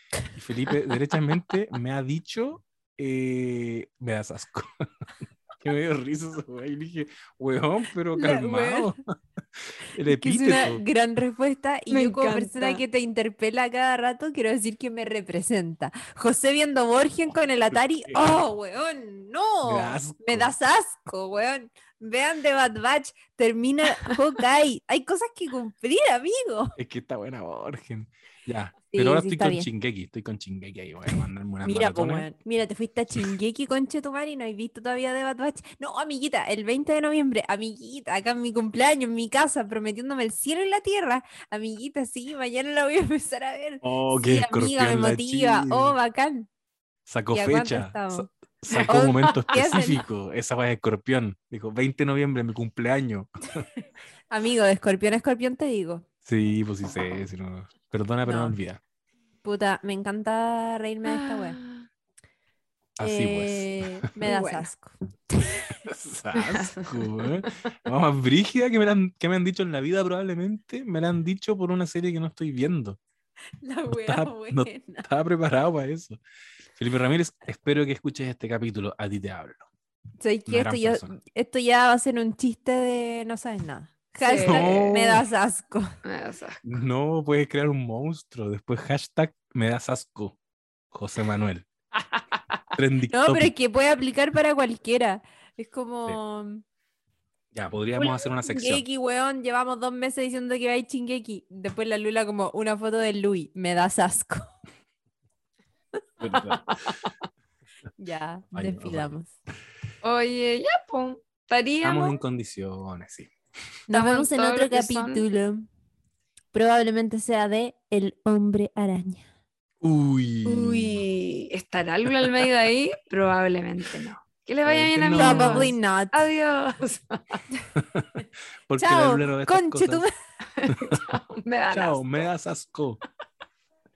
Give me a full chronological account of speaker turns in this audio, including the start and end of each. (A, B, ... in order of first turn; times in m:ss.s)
0:00.3-0:04.8 A
0:05.6-0:09.0 A
0:08.2-0:08.9 B
0:09.8-0:10.8 A
0:10.0-0:26.7 B
0:11.9-0:12.8 C
0:19.6-0:20.5 A
0:26.8-0:32.2 A
0:28.9-0:29.7 B
0:31.6-0:46.5 B
0:43.8-0:45.9 A
0:47.1-0:53.6 A
0:47.3-0:48.3 B
0:48.7-0:49.4 C
0:48.9-0:50.0 B
0:54.3-0:56.0 B
0:56.2-0:58.8 A
0:58.2-0:58.6 B
0:59.4-1:01.6 B
1:01.1-1:01.8 C
1:03.0-1:04.0 A
1:03.0-1:05.7 B
1:04.2-1:04.7 C
1:05.7-1:13.0 A
1:06.3-1:07.5 C
1:13.6-1:15.0 B
1:13.9-1:16.2 A
1:16.7-1:19.7 A
1:20.2-1:25.9 B
1:20.5-1:21.1 A
1:24.2-1:24.9 C
1:24.4-1:25.3 A
1:26.0-1:26.7 C
1:26.6-1:30.4 A
1:30.9-1:31.6 A
1:32.1-1:32.4 C
1:32.8-1:33.5 A
1:33.1-1:36.6 B
1:37.5-1:38.8 A
1:38.0-1:44.5 B
1:46.2-1:46.8 A
1:46.7-1:47.0 C
1:48.0-1:49.3 B
1:48.5-1:49.1 A
1:50.0-1:52.2 C
1:51.8-1:53.3 A
1:53.9-1:55.6 B
1:53.9-1:55.2 C
1:56.5-1:59.2 B
1:59.8-2:01.0 A
2:00.4-2:07.2 C
2:04.6-2:05.7 A
2:05.1-2:06.2 B
2:07.8-2:08.1 A
2:08.7-2:10.0 A
2:08.8-2:10.1 B
2:10.5-2:12.1 C
2:11.7-2:13.0 A